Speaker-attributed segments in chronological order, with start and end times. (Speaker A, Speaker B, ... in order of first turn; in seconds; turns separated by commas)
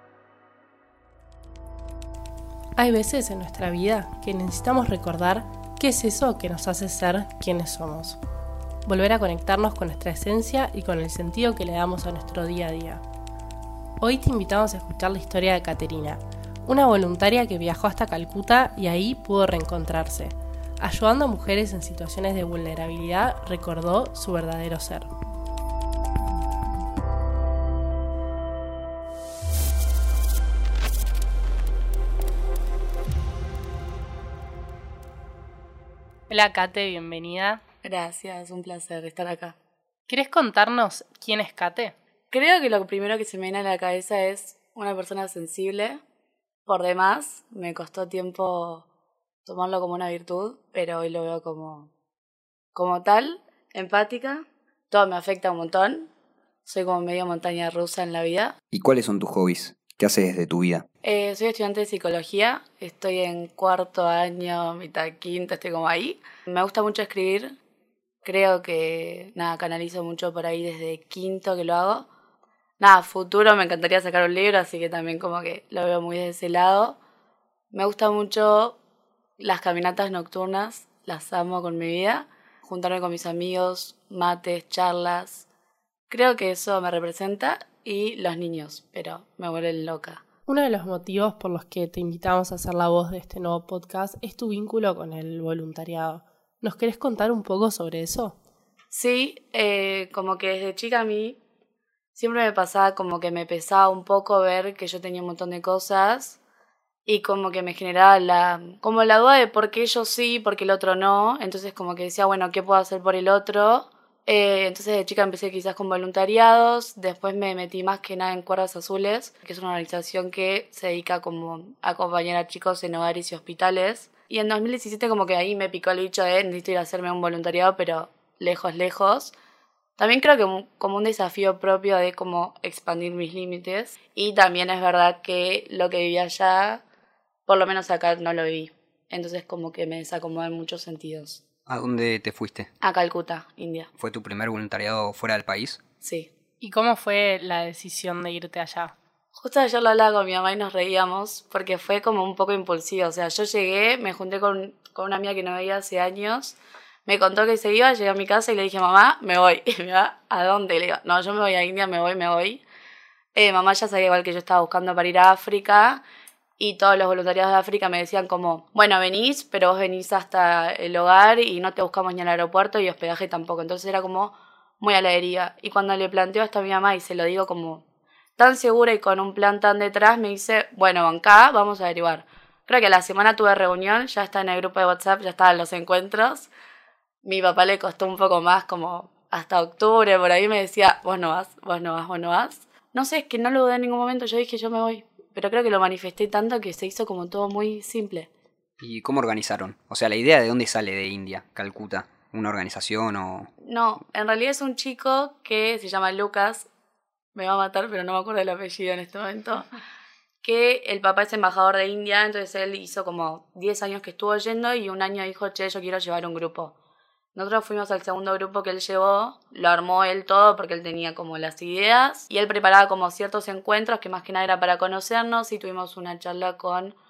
Speaker A: 2.8-8.2, Speaker A: 8.9-13.0, Speaker A: 14.0-25.1, Speaker A: 36.3-37.6, Speaker B: 37.8-39.6, Speaker A: 40.1-42.0, Speaker B: 42.3-46.0, Speaker B: 46.7-48.9, Speaker B: 49.5-51.9, Speaker B: 52.7-56.1, Speaker B: 56.6-58.5, Speaker C: 58.7-60.9, Speaker B: 61.0-67.5, Speaker B: 68.2-72.1, Speaker B: 72.8-77.0, Speaker B: 77.7-78.8, Speaker B: 79.4-85.5, Speaker B: 86.1-90.2, Speaker A: 90.5-98.3, Speaker B: 98.9-101.4, Speaker B: 102.2-106.4, Speaker B: 107.1-129.3, Speaker B: 130.0-136.8, Speaker B: 137.5-141.4, Speaker C: 141.7-142.7, Speaker B: 142.8-143.9, Speaker C: 144.0-145.8, Speaker B: 146.0-146.3, Speaker A: 146.6-148.9, Speaker B: 149.3-162.6, Speaker B: 163.3-166.0, Speaker B: 166.6-177.8, Speaker B: 178.4-186.5, Speaker B: 187.2-198.3, Speaker C: 198.8-203.5, Speaker B: 203.6-206.7, Speaker B: 207.3-209.7, Speaker B: 210.4-216.8, Speaker B: 217.3-226.9